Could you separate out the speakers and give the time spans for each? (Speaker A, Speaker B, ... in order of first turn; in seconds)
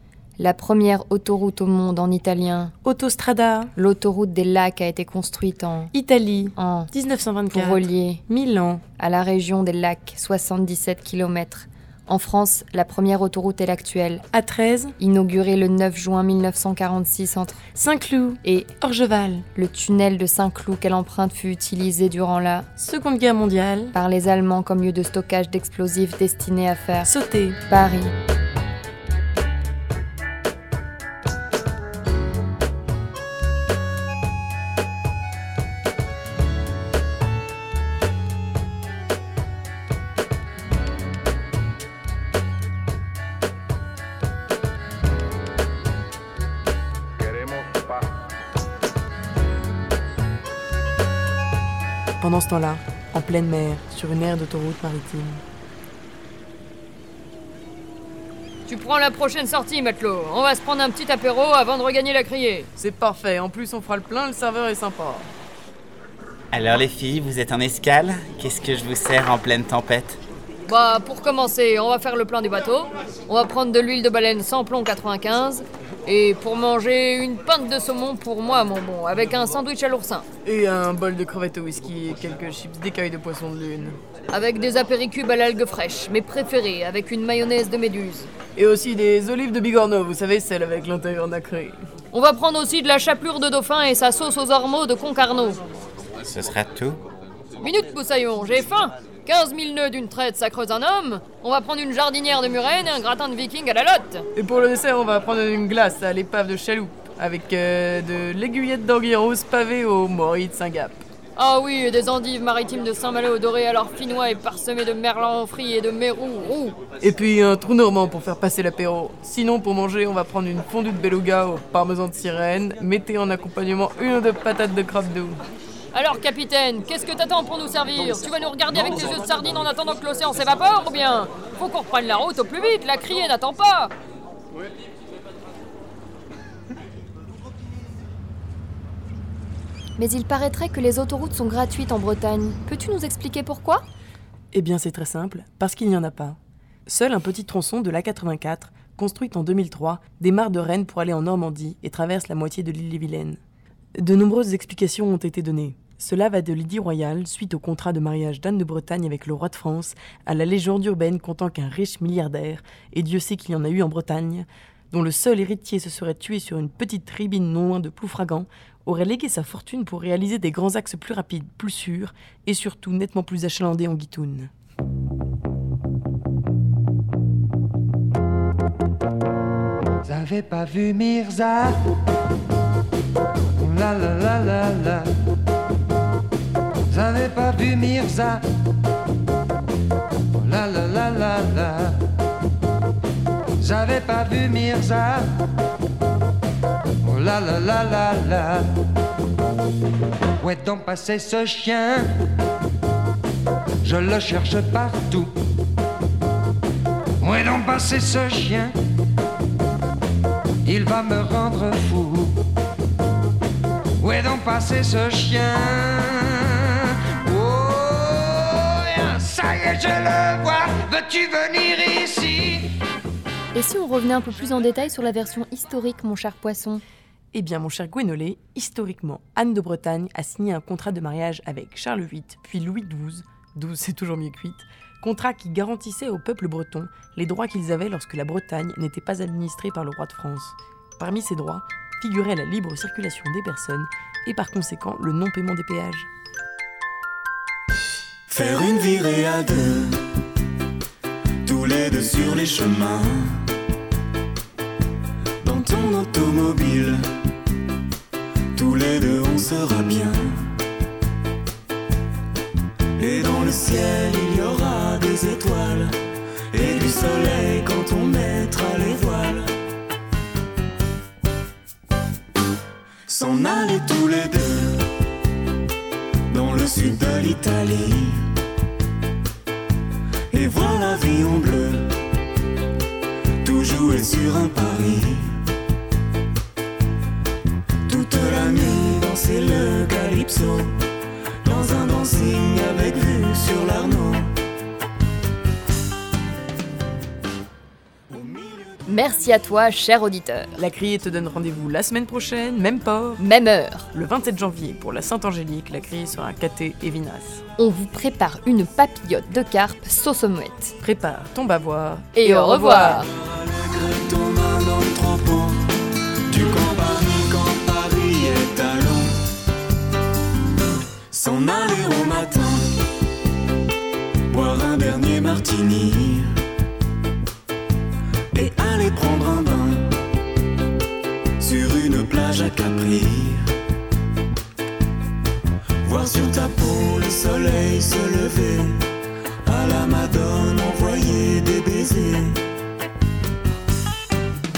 Speaker A: 0.4-2.7, 3.8-5.9, 6.6-6.9, 7.5-8.2, 9.0-14.2, 15.0-17.6, 18.4-18.7, 19.5-22.7, 23.9-27.1, 27.7-28.1, 140.0-143.8, 223.5-226.8, 298.9-300.6, 303.2-303.9, 307.6-310.8, 312.2-313.1
Speaker B: 2.8-3.7, 5.9-8.8, 14.3-15.0, 17.8-19.5, 22.8-24.0, 27.1-27.6, 52.2-55.4, 62.8-65.3, 80.4-84.0, 88.6-91.8, 104.3-111.0, 117.0-125.4, 144.5-153.4, 154.0-174.5, 227.3-246.1, 300.6-303.2, 303.9-307.4, 310.8-313.1
Speaker C: 58.7-62.7, 70.7-80.3, 84.3-88.3, 92.1-95.6, 97.6-104.3, 111.4-116.8, 125.9-133.9
Speaker D: 66.5-70.2, 96.2-97.0
Speaker E: 180.1-181.8, 183.6-185.1, 186.9-188.4, 190.4-192.0, 193.6-195.3, 197.0-198.7, 200.4-202.1, 203.8-205.3, 207.2-208.7, 210.7-212.4, 214.0-222.7
Speaker F: 248.3-250.1, 251.4-253.5, 255.4-257.1, 258.6-260.6, 263.0-266.0, 266.5-269.6, 273.1-274.9, 276.3-278.3, 280.3-282.0, 283.4-285.4, 287.9-290.8, 291.4-294.3, 298.1-298.8, 313.3-315.7, 316.3-319.2, 321.1-322.8, 324.3-326.4, 328.3-330.0, 331.4-333.5, 335.8-338.9, 339.4-342.4